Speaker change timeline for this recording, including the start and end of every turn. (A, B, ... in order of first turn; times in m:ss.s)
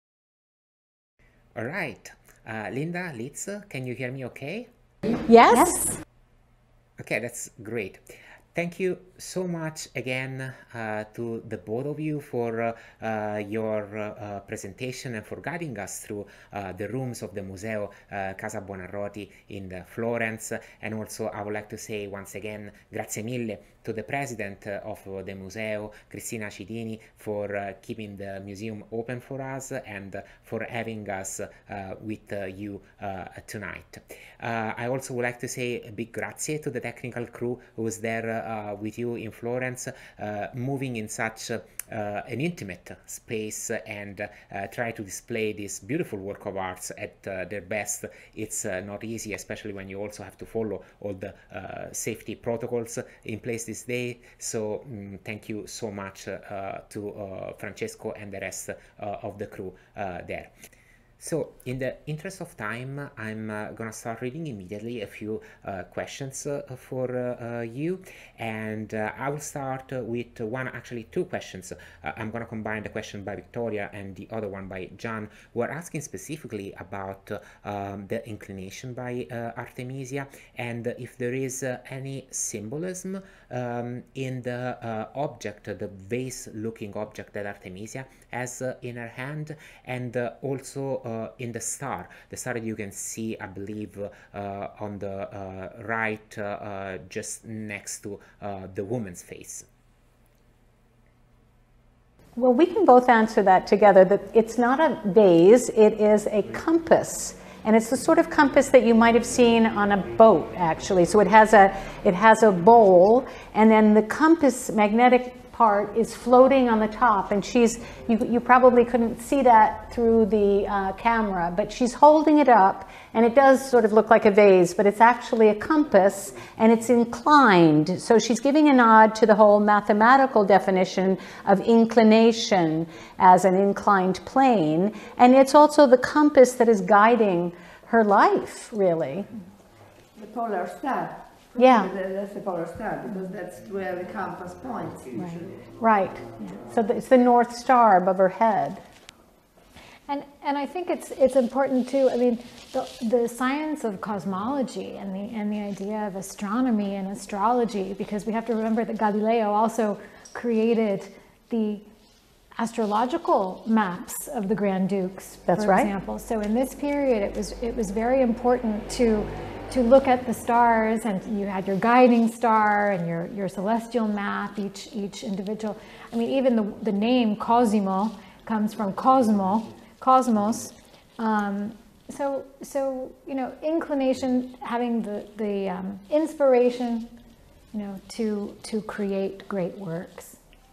0:01.6-0:04.7 A
0:05.3-0:06.0 B
0:05.5-0:05.9 C
0:07.0-1:00.5 A
1:01.2-1:39.7 A
1:42.4-2:19.3 B
2:20.2-2:25.3 D
2:21.6-2:21.9 B
2:23.1-2:23.3 C
2:25.2-2:25.4 C
2:25.8-2:28.8 B
2:30.1-2:41.8 C
2:42.6-3:07.1 C
2:45.5-2:45.9 B
3:07.7-3:10.4 C